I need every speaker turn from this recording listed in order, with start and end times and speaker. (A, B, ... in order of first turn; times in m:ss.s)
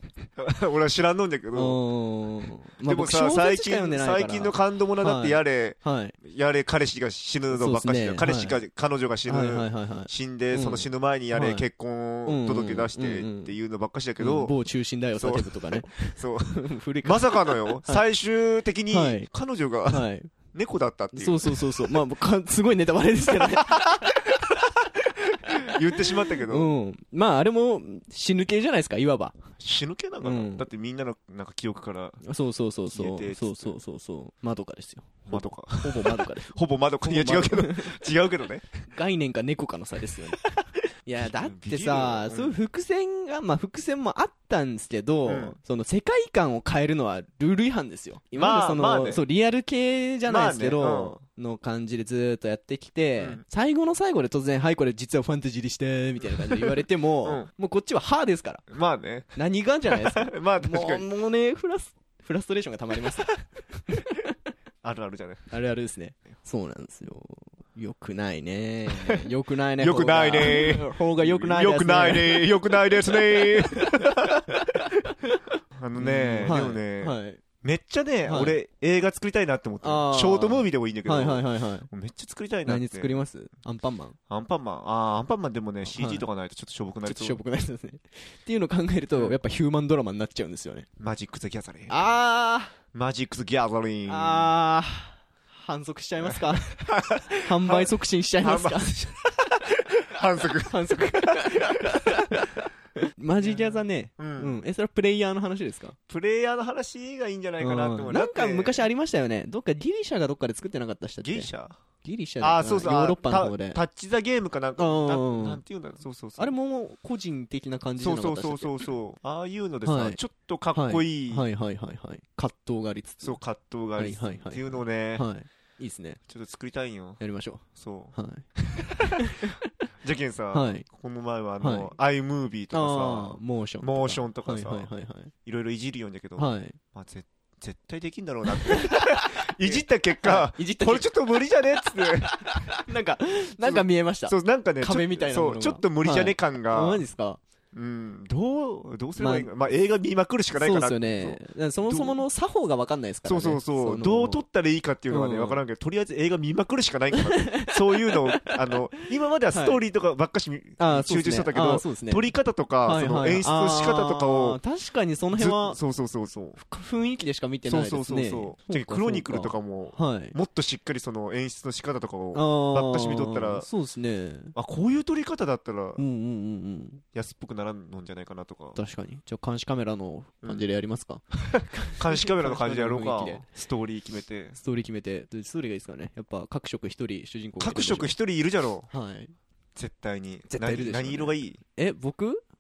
0:00.4-0:01.8 A
0:01.6-0:06.2 B
0:02.8-0:14.6 A
0:07.5-0:08.6 B
0:09.3-0:11.7 B
0:12.3-0:13.6 B
0:14.2-0:18.0 B
0:15.2-0:22.0 A
0:18.9-0:19.3 B
0:19.9-0:20.3 B
0:21.1-0:24.4 B
0:23.3-0:24.2 A
0:25.4-0:26.7 A
0:26.0-0:29.4 B
0:29.6-0:32.2 A
0:30.2-0:30.7 B
0:32.2-0:38.0 B
0:32.9-0:33.8 A
0:35.3-0:38.7 A
0:38.9-0:40.4 B
0:41.1-0:58.6 B
0:41.2-0:42.6 A
0:45.3-0:45.6 A
0:48.4-0:49.2 A
0:50.3-0:51.2 A
0:56.3-0:56.7 A
0:58.7-1:01.1 A
0:59.4-1:03.4 B
1:03.9-1:04.2 B
1:04.8-1:05.5 A
1:05.5-1:12.4 B
1:09.8-1:14.4 A
1:15.8-1:23.2 A
1:16.0-1:17.4 B
1:18.3-1:18.6 B
1:19.8-1:21.9 B
1:22.7-1:24.2 B
1:24.3-1:27.4 A
1:25.9-1:26.3 B
1:27.0-1:30.9 B
1:31.0-1:32.1 A
1:31.9-1:32.8 B
1:32.9-1:34.5 A
1:34.1-1:36.9 B
1:36.2-1:39.6 A
1:37.4-1:38.9 B
1:40.1-1:42.2 A
1:40.7-1:42.6 B
1:43.2-1:46.0 B
1:43.4-1:44.6 A
1:46.1-1:48.9 A
1:47.6-1:51.5 B
1:51.2-1:51.8 A
1:52.0-1:53.8 B
1:52.4-1:56.5 A
1:54.8-1:55.6 B
1:56.4-1:58.9 B
1:58.0-2:01.5 A
1:59.8-2:00.2 B
2:00.7-2:03.4 B
2:03.2-2:05.3 A
2:04.0-2:06.2 B
2:06.3-2:07.2 A
2:07.2-2:08.5 B
2:07.8-2:08.2 A
2:08.8-2:09.0 A
2:09.0-2:09.6 B
2:10.0-2:14.9 A
2:10.5-2:10.8 B
2:11.6-2:11.9 B
2:12.7-2:15.3 B
2:15.4-2:22.6 A
2:16.4-2:16.8 B
2:18.6-2:21.1 B
2:22.2-2:27.4 B
2:23.6-2:27.0 A
2:27.7-2:32.2 A
2:29.2-2:29.5 B
2:30.6-2:34.4 B
2:33.2-2:44.6 A
2:35.1-2:35.6 B
2:37.3-2:37.7 B
2:39.5-2:39.8 B
2:40.8-2:42.2 B
2:42.8-2:45.8 B
2:45.3-2:46.6 A
2:46.5-2:50.4 B
2:47.7-2:53.7 A
2:52.3-2:54.5 B
2:54.6-2:56.0 A
2:56.0-2:57.0 B
2:57.1-2:58.8 A
2:58.8-3:03.5 B
3:01.6-3:04.6 A
3:04.5-3:08.2 B
3:07.6-3:08.9 A
3:08.9-3:09.3 B
3:09.8-3:11.6 A
3:10.5-3:12.4 B